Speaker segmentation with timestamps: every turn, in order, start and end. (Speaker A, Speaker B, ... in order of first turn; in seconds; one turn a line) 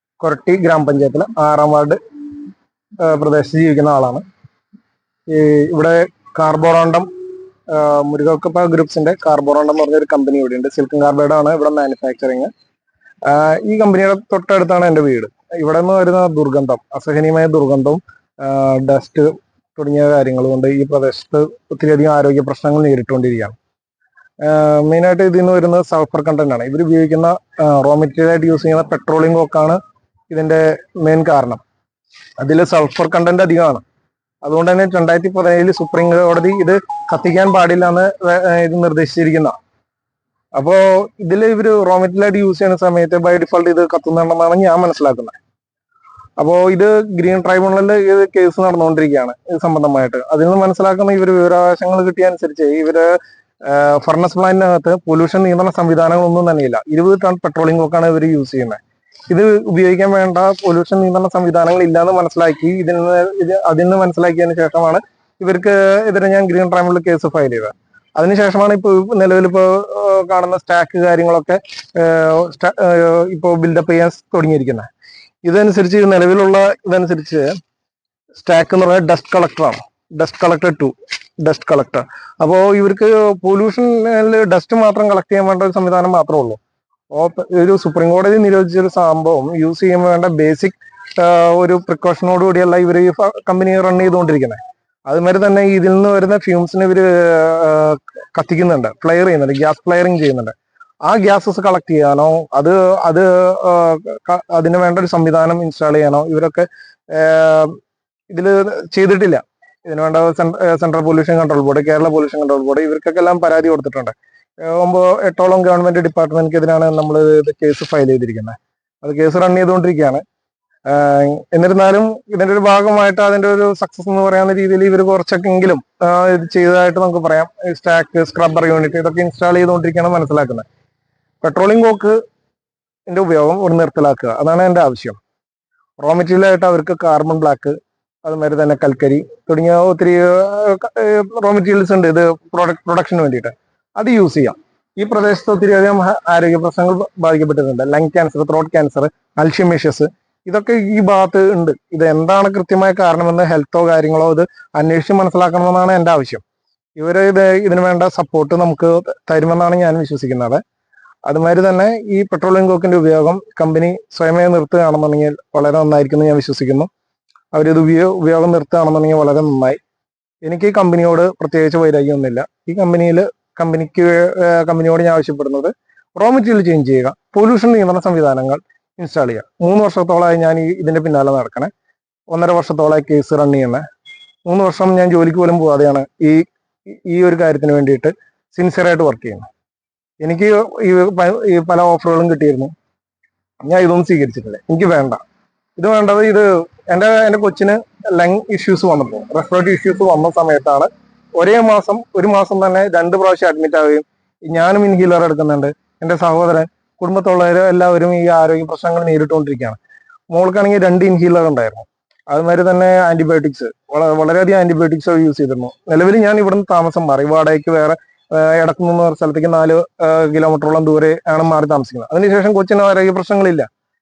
Speaker A: 0.2-2.0
Speaker A: 3.0-4.2
Speaker A: 5.3-7.1
Speaker A: 7.7-12.5
Speaker A: 13.2-23.5
Speaker A: 24.4-31.6
Speaker A: 32.4-33.8
Speaker A: 34.4-39.5
Speaker A: 40.5-45.3
Speaker A: 46.4-74.9
Speaker A: 75.4-77.5
Speaker A: 78.4-86.6
Speaker A: 87.1-107.8
Speaker A: 108.3-120.2
Speaker A: 120.9-130.6
Speaker A: 131.4-132.2
Speaker A: 133.1-135.2
Speaker A: 136.0-156.4
Speaker A: 157.0-160.6
Speaker A: 161.2-166.9
Speaker A: 167.5-169.8
Speaker A: 170.4-181.7
Speaker A: 182.3-183.8
Speaker A: 184.5-189.5
Speaker A: 190.2-192.7
Speaker A: 193.6-195.2
Speaker A: 195.8-209.8
Speaker A: 210.3-223.7